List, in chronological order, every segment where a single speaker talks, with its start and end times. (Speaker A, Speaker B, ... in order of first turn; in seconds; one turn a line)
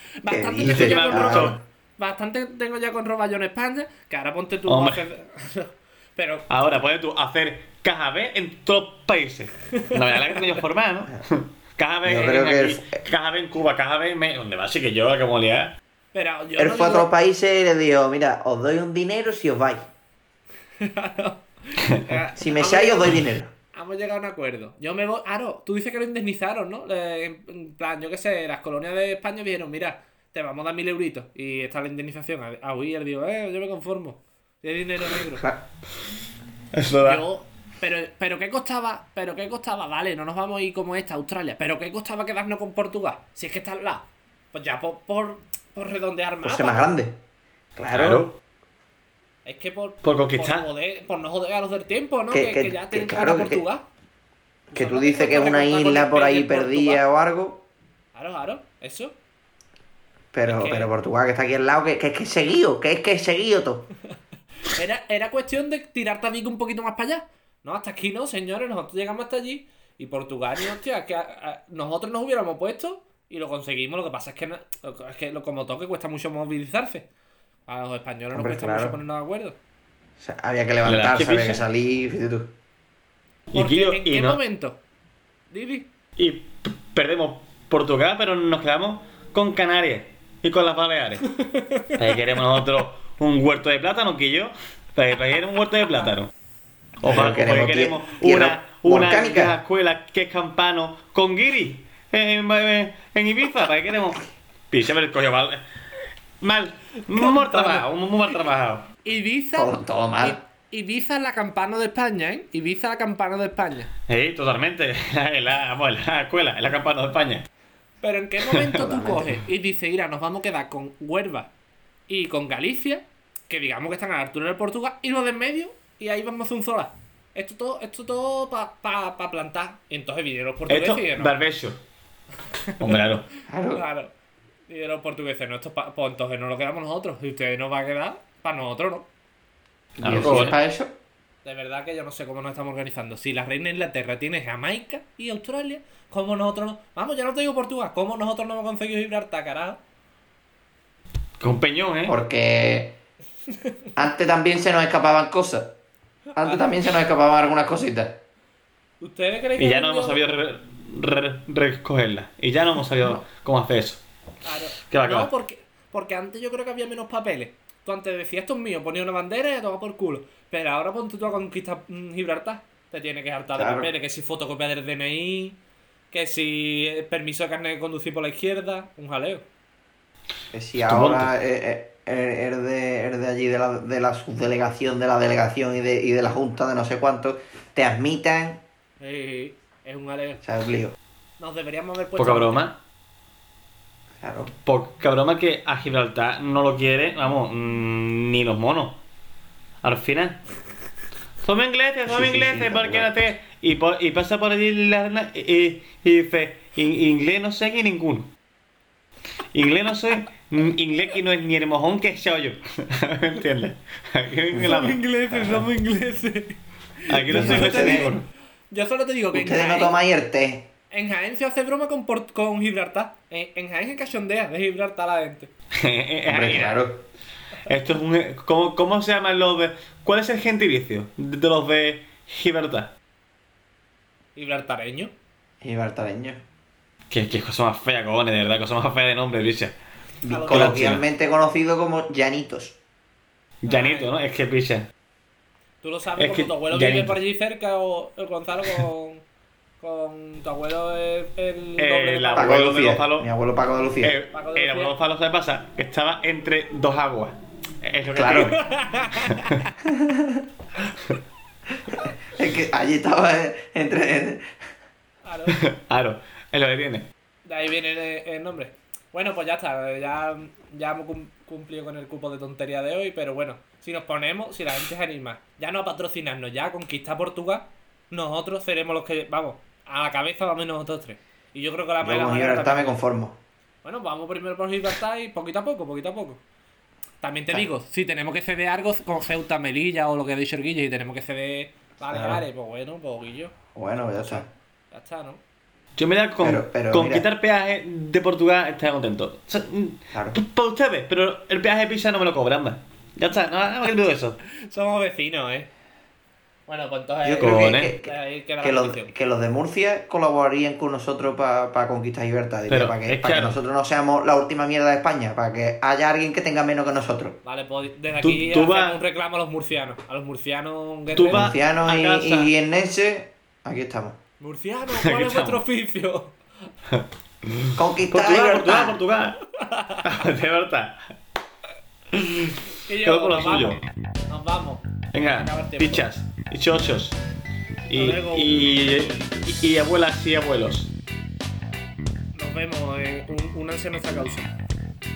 Speaker A: 0.2-6.4
Speaker B: 0.3-1.6
Speaker C: 0.6-1.6
Speaker C: 4.7-5.0
Speaker C: 6.5-15.8
Speaker A: 10.2-10.4
Speaker B: 12.0-13.0
Speaker A: 16.1-17.1
Speaker B: 16.6-19.9
Speaker A: 20.8-35.5
Speaker B: 22.4-23.5
Speaker C: 36.7-37.2
Speaker A: 37.0-46.9
Speaker B: 46.4-47.2
Speaker B: 47.8-48.4
Speaker C: 47.9-48.3
Speaker A: 49.4-53.8
Speaker C: 50.0-50.6
Speaker B: 52.3-53.6
Speaker A: 54.7-57.0
Speaker B: 54.7-57.6
Speaker A: 58.1-59.1
Speaker B: 60.3-63.9
Speaker A: 60.5-60.9
Speaker A: 64.7-77.1
Speaker A: 77.7-79.5
Speaker B: 78.3-79.0
Speaker B: 80.2-82.5
Speaker C: 80.8-81.6
Speaker C: 83.5-84.4
Speaker A: 83.5-84.8
Speaker A: 85.5-85.9
Speaker C: 86.2-91.2
Speaker A: 91.4-91.9
Speaker C: 92.0-96.3
Speaker C: 97.0-105.6
Speaker B: 97.0-99.6
Speaker C: 106.4-108.9
Speaker A: 107.1-107.9
Speaker A: 109.0-113.9
Speaker B: 109.5-110.4
Speaker C: 114.1-117.5
Speaker A: 118.0-121.5
Speaker C: 118.4-118.7
Speaker B: 118.7-119.4
Speaker A: 122.1-131.3
Speaker C: 130.7-131.8
Speaker A: 132.7-133.1
Speaker C: 132.8-133.2
Speaker B: 133.5-133.8
Speaker A: 133.7-134.1
Speaker A: 134.7-139.1
Speaker B: 140.0-140.9
Speaker C: 140.0-140.6
Speaker A: 140.1-140.5
Speaker A: 141.4-149.8
Speaker C: 151.4-152.2
Speaker B: 152.1-153.0
Speaker B: 153.9-155.8
Speaker A: 156.3-156.6
Speaker B: 156.4-158.2
Speaker A: 159.0-160.2
Speaker C: 159.6-164.0
Speaker A: 164.4-175.6
Speaker C: 164.9-165.3
Speaker B: 173.5-173.9
Speaker A: 176.1-179.4
Speaker B: 180.5-188.6
Speaker C: 180.8-181.3
Speaker A: 189.0-190.4
Speaker B: 190.4-190.9
Speaker A: 191.4-192.7
Speaker C: 192.2-192.8
Speaker B: 194.2-194.5
Speaker C: 194.6-199.0
Speaker C: 199.8-200.4
Speaker C: 201.4-208.3
Speaker B: 202.1-203.1
Speaker C: 209.5-215.0
Speaker A: 214.5-220.0
Speaker C: 217.1-218.2
Speaker B: 217.3-218.1
Speaker B: 219.3-220.7
Speaker A: 220.9-225.5
Speaker C: 225.7-226.8
Speaker B: 226.3-227.0
Speaker C: 227.7-232.9
Speaker A: 234.3-235.1
Speaker B: 235.6-236.4
Speaker C: 237.1-239.8
Speaker B: 240.2-242.8
Speaker A: 240.3-241.0
Speaker C: 240.5-241.0
Speaker C: 243.6-244.9
Speaker A: 243.7-244.1
Speaker A: 245.8-249.2
Speaker C: 246.2-247.2
Speaker A: 249.8-252.8
Speaker C: 251.8-253.3
Speaker B: 252.3-254.1
Speaker C: 254.0-258.6
Speaker A: 254.3-254.9
Speaker B: 258.1-258.6
Speaker A: 258.2-259.7
Speaker C: 259.2-259.6
Speaker B: 259.8-260.4
Speaker B: 261.9-264.5
Speaker A: 265.2-265.6
Speaker C: 265.5-267.1
Speaker A: 267.4-283.0
Speaker B: 282.0-283.4
Speaker A: 283.8-286.4
Speaker A: 287.2-293.5
Speaker B: 292.1-292.4
Speaker B: 293.7-294.5
Speaker A: 294.1-295.4
Speaker C: 296.0-304.4
Speaker B: 296.4-297.3
Speaker B: 300.1-300.4
Speaker A: 304.5-305.7
Speaker A: 306.7-309.1
Speaker B: 307.2-317.4
Speaker C: 307.4-307.9
Speaker C: 312.7-313.6
Speaker A: 317.4-321.5
Speaker C: 318.2-319.0
Speaker C: 321.1-322.5
Speaker B: 321.3-324.2
Speaker A: 324.4-326.3
Speaker C: 324.9-325.6
Speaker C: 326.9-329.4
Speaker B: 327.8-329.0
Speaker A: 329.6-330.0
Speaker C: 330.0-331.0
Speaker C: 332.1-333.8
Speaker A: 332.9-334.9
Speaker C: 335.1-337.2
Speaker A: 335.4-336.1
Speaker C: 337.9-340.9
Speaker A: 337.9-339.0
Speaker A: 342.3-344.5